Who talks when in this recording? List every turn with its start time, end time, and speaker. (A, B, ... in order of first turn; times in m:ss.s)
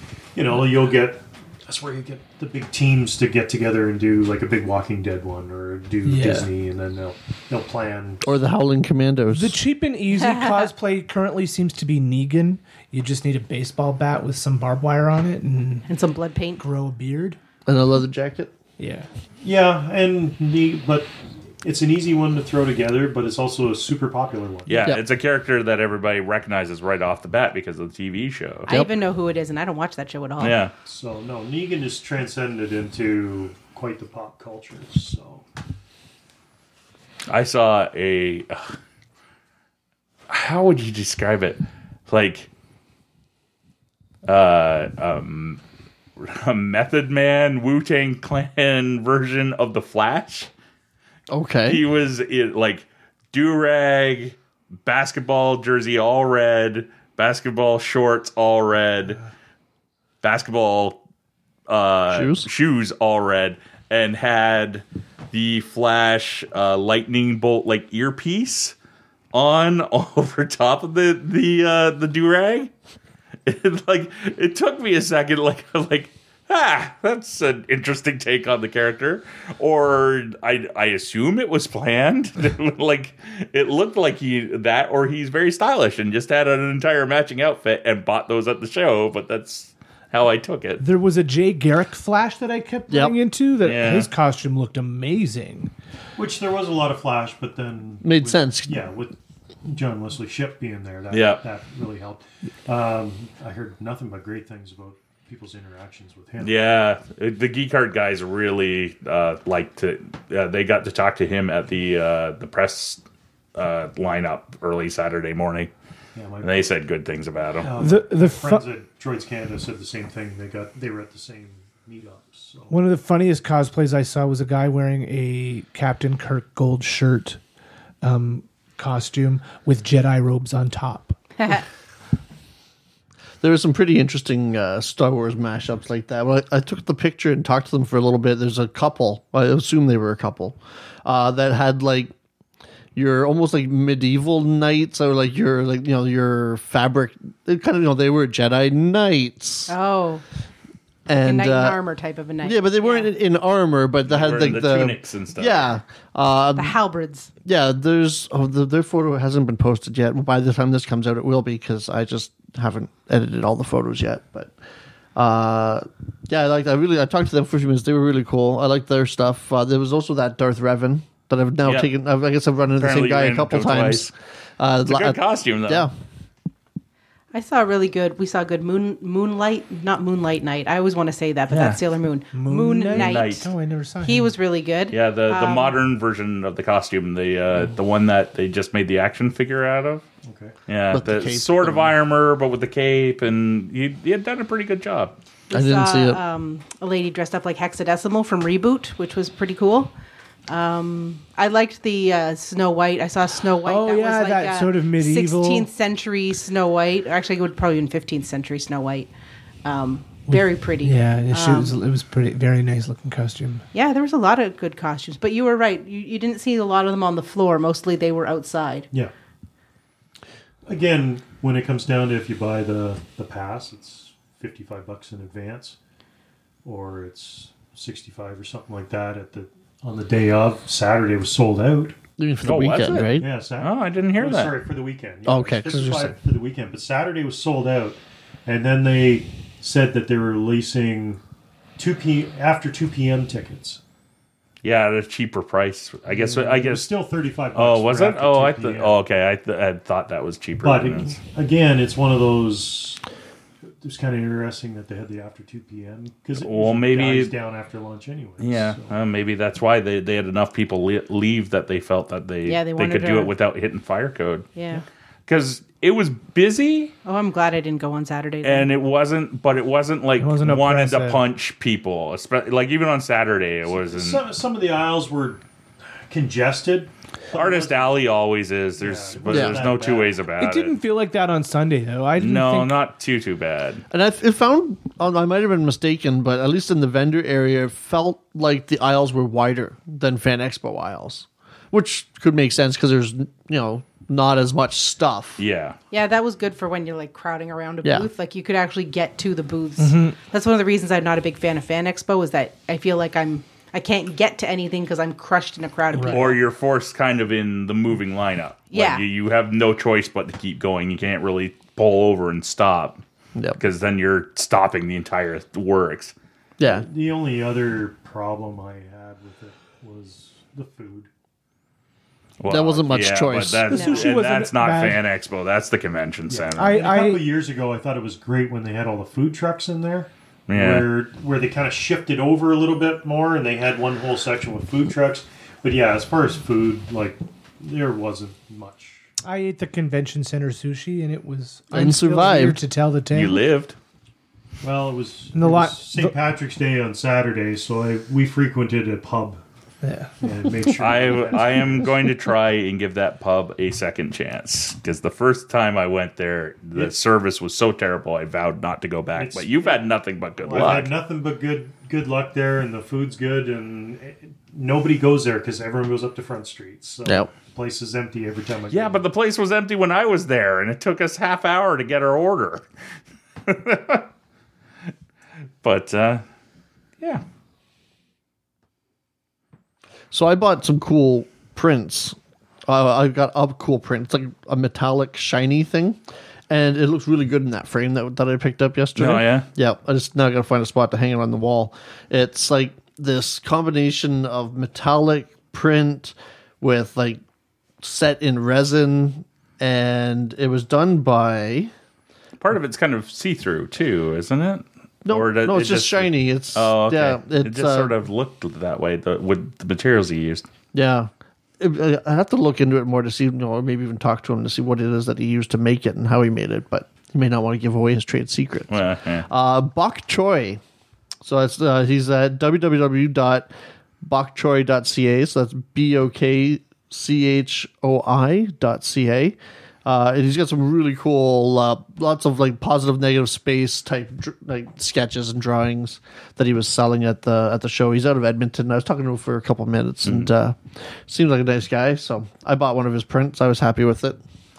0:00.3-0:08.2 A
0:06.0-0:06.5 B
0:08.2-0:09.6 C
0:09.3-0:15.9 B
0:10.1-0:10.7 D
0:15.9-0:16.6 D
0:16.6-0:17.4 B
0:17.7-0:18.5 C
0:18.8-0:19.1 B
0:19.4-0:24.9 A
0:24.7-0:28.7 E
0:28.7-0:30.6 D
0:30.4-0:30.7 E
0:30.9-0:35.4 A
0:37.3-0:38.8 E
0:40.3-0:42.5 E
0:44.3-0:45.6 E
0:46.2-0:50.5 E
0:51.3-0:51.8 C
0:51.6-0:59.2 E
1:00.2-1:01.0 E
1:01.7-1:08.7 E
1:02.1-1:02.5 C
1:09.3-1:12.7 E
1:13.4-1:30.8 E
1:30.8-1:35.7 B
1:32.9-1:33.1 C
1:33.6-1:34.1 E
1:36.2-1:39.1 A
1:38.0-1:38.8 C
1:39.6-1:46.6 A
1:41.1-1:41.4 E
1:46.4-1:53.0 E
1:53.6-1:55.7 E
1:56.1-1:56.7 A
1:56.4-1:57.7 E
1:57.6-2:02.7 A
1:57.8-1:58.6 B
2:02.7-2:07.4 B
2:08.0-2:11.6 B
2:13.4-2:22.1 C
2:23.0-2:29.7 C
2:29.7-2:30.2 D
2:31.1-2:31.8 C
2:31.2-2:33.1 D
2:32.4-2:36.8 C
2:34.0-2:35.8 E
2:36.6-2:37.3 D
2:37.4-2:44.5 C
2:45.2-2:55.9 C
2:51.6-2:51.9 E
2:52.8-2:54.1 E
2:54.9-2:55.9 E
2:57.3-3:03.5 D
3:01.5-3:01.8 E
3:02.3-3:04.3 B
3:02.9-3:03.5 E
3:04.0-3:05.8 D
3:04.9-3:10.0 E
3:10.2-3:10.6 A
3:10.7-3:15.1 E
3:10.9-3:11.9 C
3:15.5-3:19.9 D
3:15.5-3:16.2 C
3:20.5-3:29.1 D
3:23.6-3:25.7 B
3:29.6-3:31.8 D
3:30.3-3:33.6 B
3:33.7-3:38.9 D
3:40.6-3:45.8 A
3:46.6-3:52.0 A
3:52.2-3:53.3 C
3:52.4-3:54.6 E
3:53.1-4:01.2 A
3:55.3-3:56.1 C
4:01.8-4:03.8 A
4:04.6-4:06.9 E
4:06.1-4:09.0 A
4:07.5-4:11.2 E
4:10.6-4:13.0 A
4:13.8-4:19.0 A
4:16.4-4:17.3 E
4:18.4-4:24.5 E
4:22.4-4:23.3 D
4:24.6-4:24.8 D
4:25.3-4:26.9 E
4:27.0-4:28.7 D
4:28.4-4:34.2 E
4:30.2-4:31.2 B
4:33.7-4:35.4 A
4:36.1-4:38.0 A
4:37.3-4:40.7 E
4:38.8-4:40.2 A
4:39.3-4:39.6 C
4:40.4-4:42.8 B
4:42.2-4:43.8 E
4:43.9-4:55.4 C
4:55.4-4:55.8 E
4:55.9-5:06.4 D
4:57.8-4:58.1 C
4:59.8-5:00.1 B
5:05.9-5:06.2 B
5:06.0-5:13.0 E
5:08.7-5:09.0 D
5:13.6-5:16.1 E
5:16.6-5:16.9 C
5:16.6-5:21.1 A
5:22.4-5:26.8 E
5:22.5-5:23.7 C
5:23.7-5:25.0 B
5:23.7-5:24.1 D
5:26.3-5:39.0 A
5:26.6-5:27.3 B
5:30.5-5:30.9 E
5:39.2-5:43.4 B
5:41.7-5:42.6 C
5:43.1-5:43.8 E
5:44.6-5:49.4 A
5:45.3-5:46.1 B
5:49.8-5:50.2 B
5:50.2-5:51.8 A
5:50.8-6:00.9 E
5:59.1-5:59.8 A
6:00.4-6:09.0 A
6:08.7-6:12.7 E
6:13.4-6:14.1 E
6:15.6-6:16.2 E
6:20.1-6:37.2 C
6:29.0-6:29.5 E
6:37.8-6:41.7 C
6:42.4-6:50.4 E
6:45.0-6:47.9 C
6:50.7-7:00.6 C
6:58.7-6:59.3 E
7:01.2-7:03.5 C
7:04.0-7:24.2 C
7:20.0-7:20.3 E